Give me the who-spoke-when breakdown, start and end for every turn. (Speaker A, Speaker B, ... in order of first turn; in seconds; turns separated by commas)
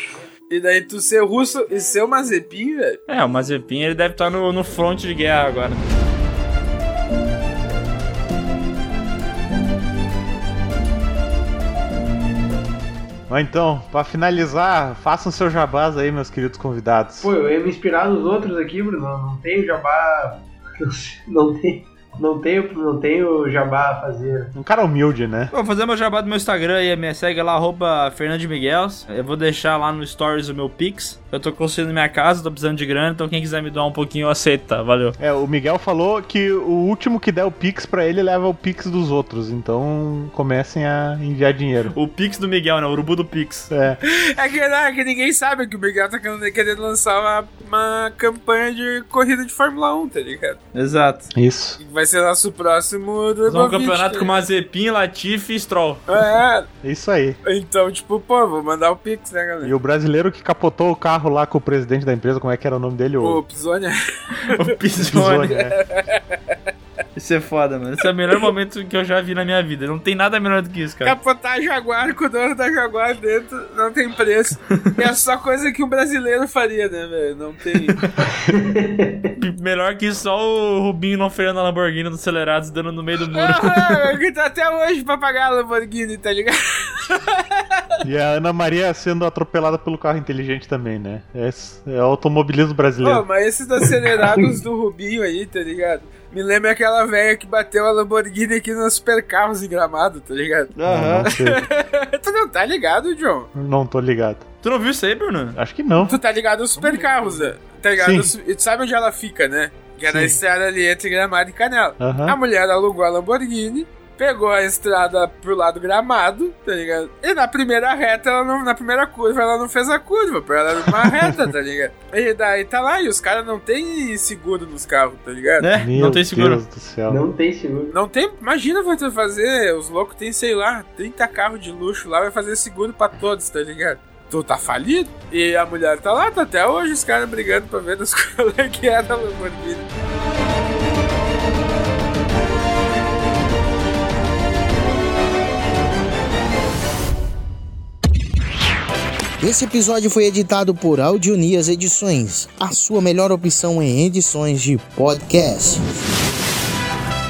Speaker A: 0.5-3.0, Speaker B: 3.1-5.8, Speaker C: 13.3-17.3, Speaker D: 17.2-24.5, Speaker C: 24.5-25.5, Speaker B: 25.5-35.2, Speaker C: 35.2-42.0, Speaker B: 41.9-43.7, Speaker C: 43.7-44.0, Speaker A: 44.0-50.6, Speaker B: 50.7-51.3, Speaker C: 51.3-51.8, Speaker A: 51.8-54.4, Speaker B: 53.5-56.1, Speaker A: 56.1-56.7, Speaker C: 56.8-57.4, Speaker A: 57.4-59.7, Speaker C: 59.6-63.4, Speaker A: 63.2-64.7, Speaker B: 64.5-65.6, Speaker C: 65.0-65.7, Speaker A: 65.7-66.6, Speaker B: 67.2-71.1, Speaker A: 71.0-78.0, Speaker D: 78.3-79.3, Speaker B: 79.4-84.1, Speaker A: 83.3-87.8, Speaker C: 88.0-93.2, Speaker A: 93.0-103.5, Speaker B: 100.7-101.3, Speaker C: 100.8-101.6, Speaker C: 103.5-104.5, Speaker B: 104.6-105.6, Speaker C: 105.5-106.2, Speaker A: 106.0-125.7, Speaker C: 108.0-108.3, Speaker C: 110.0-110.4, Speaker C: 112.0-112.4, Speaker B: 125.6-126.6, Speaker C: 125.8-127.2, Speaker D: 127.1-127.9, Speaker A: 127.9-139.9, Speaker E: 149.4-156.4